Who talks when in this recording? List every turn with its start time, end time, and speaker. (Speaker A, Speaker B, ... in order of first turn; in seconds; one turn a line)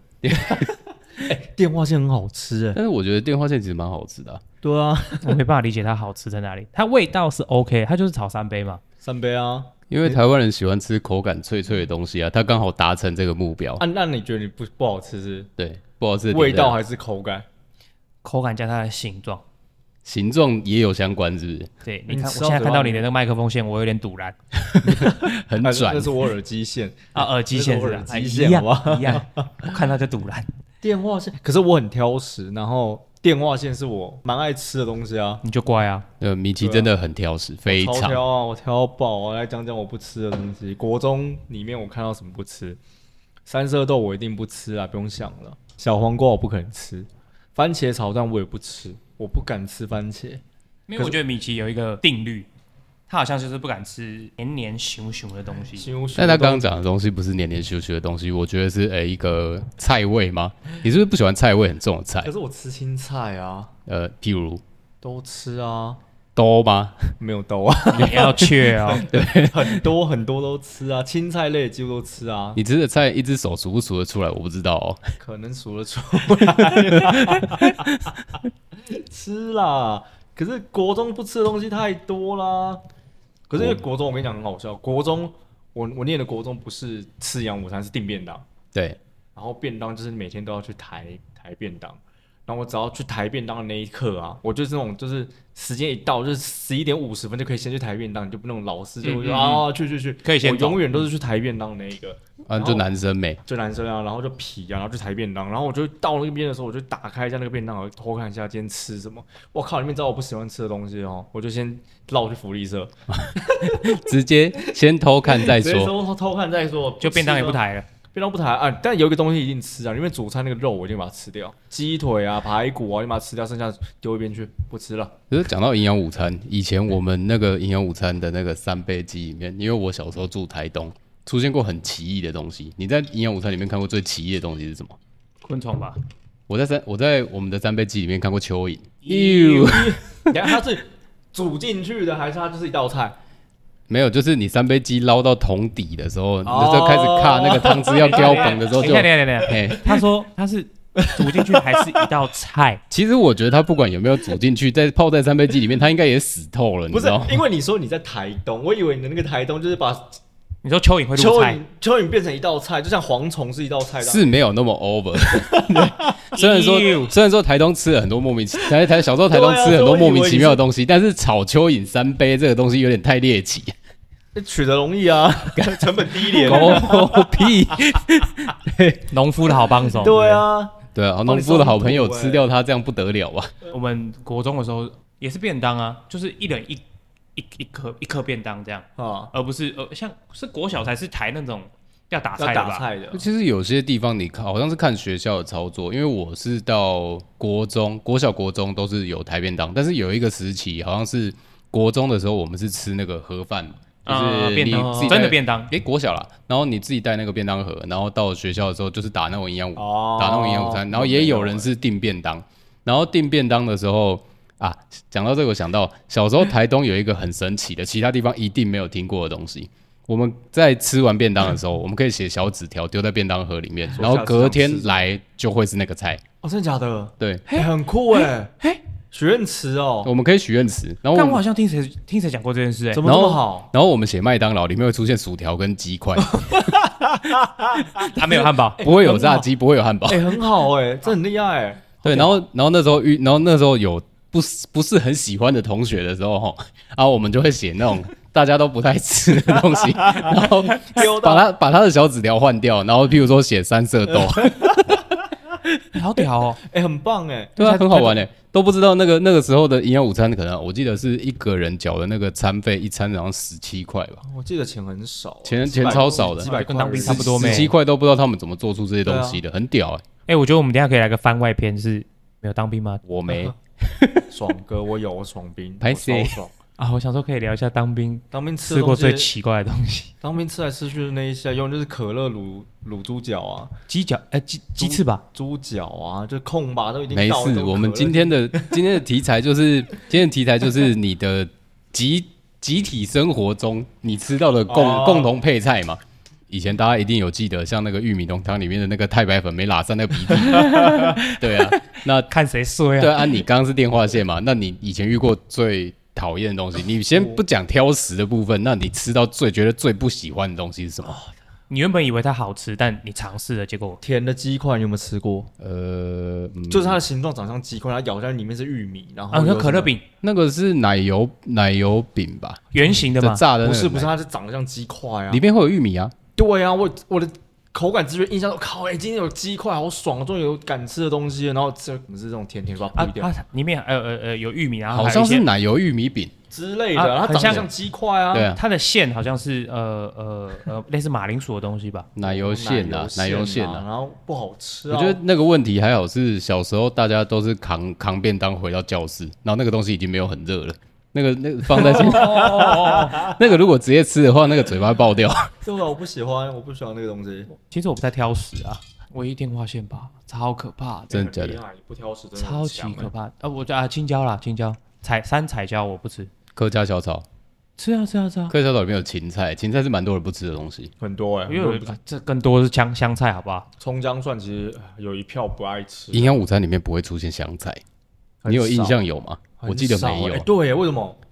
Speaker A: 0.2-0.7
Speaker B: 1.2-2.8
Speaker A: 2.7-4.4
Speaker B: 4.6-5.4
Speaker C: 5.2-8.8
Speaker B: 9.0-10.2
Speaker A: 9.9-13.8
Speaker B: 13.8-15.5
Speaker A: 15.6-16.8
Speaker B: 16.3-17.4
Speaker C: 18.2-19.4
Speaker A: 20.0-21.7
Speaker C: 21.8-24.3
Speaker B: 22.1-23.1
Speaker A: 24.6-26.2
Speaker B: 24.8-29.7
Speaker C: 27.1-30.5
Speaker B: 30.8-35.4
Speaker C: 35.4-36.0
Speaker A: 36.2-38.2
Speaker B: 36.6-36.9
Speaker B: 37.6-42.8
Speaker B: 43.5-50.4
Speaker C: 50.9-52.5
Speaker C: 53.1-55.9
Speaker B: 55.7-56.7
Speaker A: 56.1-62.3
Speaker B: 62.2-63.7
Speaker A: 63.9-64.6
Speaker B: 65.0-66.0
Speaker A: 66.3-67.1
Speaker B: 67.2-72.6
Speaker C: 67.9-69.1
Speaker A: 69.0-69.8
Speaker A: 72.5-75.0
Speaker B: 75.2-77.8
Speaker A: 76.4-78.2
Speaker B: 78.8-82.8
Speaker B: 83.5-88.4
Speaker A: 88.7-89.0
Speaker B: 89.3-102.8
Speaker C: 99.0-99.7
Speaker C: 100.2-101.0
Speaker A: 102.5-103.4
Speaker B: 103.4-114.0
Speaker A: 113.1-115.9
Speaker B: 115.2-125.2
Speaker C: 117.0-117.9
Speaker A: 125.3-135.0
Speaker C: 135.4-136.0
Speaker A: 136.5-140.6
Speaker B: 139.1-143.1
Speaker C: 139.1-139.7
Speaker A: 143.9-150.0
Speaker B: 146.4-148.8
Speaker C: 147.9-152.8
Speaker B: 151.0-152.0
Speaker A: 152.9-157.4
Speaker B: 156.9-160.2
Speaker C: 160.6-161.6
Speaker B: 161.1-164.3
Speaker A: 164.0-173.7
Speaker B: 165.2-166.3
Speaker C: 166.3-167.1
Speaker B: 168.6-170.6
Speaker B: 174.3-177.8
Speaker A: 175.5-179.5
Speaker C: 176.5-176.8
Speaker C: 179.1-180.4
Speaker B: 179.9-182.4
Speaker A: 180.9-183.5
Speaker C: 183.7-186.8
Speaker C: 187.3-192.8
Speaker B: 189.0-189.3
Speaker B: 192.4-193.2
Speaker A: 193.1-226.2
Speaker C: 204.1-205.7
Speaker B: 204.7-205.3
Speaker B: 209.8-211.7
Speaker B: 223.9-225.0
Speaker B: 226.4-228.5
Speaker C: 227.5-228.8
Speaker B: 229.1-230.1
Speaker A: 230.0-231.4
Speaker C: 231.1-233.0
Speaker B: 232.9-233.7
Speaker A: 233.0-236.7
Speaker B: 236.4-238.1
Speaker C: 238.0-238.8
Speaker B: 238.8-239.5
Speaker A: 238.8-240.4
Speaker B: 240.1-242.3
Speaker A: 242.0-255.1
Speaker B: 250.0-251.5
Speaker B: 254.4-254.8
Speaker C: 255.9-256.6
Speaker B: 256.6-258.1
Speaker A: 257.6-264.2
Speaker B: 264.2-267.7
Speaker A: 265.4-270.0
Speaker C: 265.8-267.7
Speaker B: 269.0-269.4
Speaker C: 270.3-273.0
Speaker A: 273.0-274.3
Speaker B: 274.3-276.5
Speaker A: 275.8-276.4
Speaker C: 276.8-280.1
Speaker B: 278.3-279.3
Speaker B: 280.2-283.7
Speaker C: 283.9-285.2
Speaker B: 284.8-288.8
Speaker A: 287.1-302.3
Speaker B: 294.7-295.4
Speaker C: 300.4-303.4
Speaker A: 303.0-311.2
Speaker B: 307.1-307.4
Speaker C: 311.7-314.0
Speaker B: 314.0-315.5
Speaker A: 315.6-317.0
Speaker B: 316.7-319.9
Speaker C: 319.3-320.0
Speaker A: 320.2-324.1
Speaker C: 322.7-323.4
Speaker B: 323.6-325.4
Speaker A: 325.3-326.1
Speaker B: 326.3-333.3
Speaker C: 332.9-335.4
Speaker A: 334.9-336.3
Speaker B: 336.5-338.5
Speaker C: 336.9-337.7
Speaker A: 338.3-338.6
Speaker C: 338.5-342.1
Speaker A: 342.1-343.8
Speaker B: 342.2-345.2
Speaker A: 344.9-355.5
Speaker C: 351.7-353.3
Speaker B: 351.8-353.3
Speaker B: 355.6-357.5
Speaker C: 357.5-361.2
Speaker A: 361.1-361.6
Speaker B: 361.1-363.1
Speaker C: 362.4-366.3
Speaker A: 366.5-367.2
Speaker C: 367.8-368.5
Speaker A: 368.5-370.9
Speaker B: 371.0-372.0
Speaker C: 371.5-373.7
Speaker B: 373.8-376.3
Speaker A: 376.1-377.8
Speaker B: 378.4-379.0
Speaker A: 378.5-380.5
Speaker B: 379.6-381.2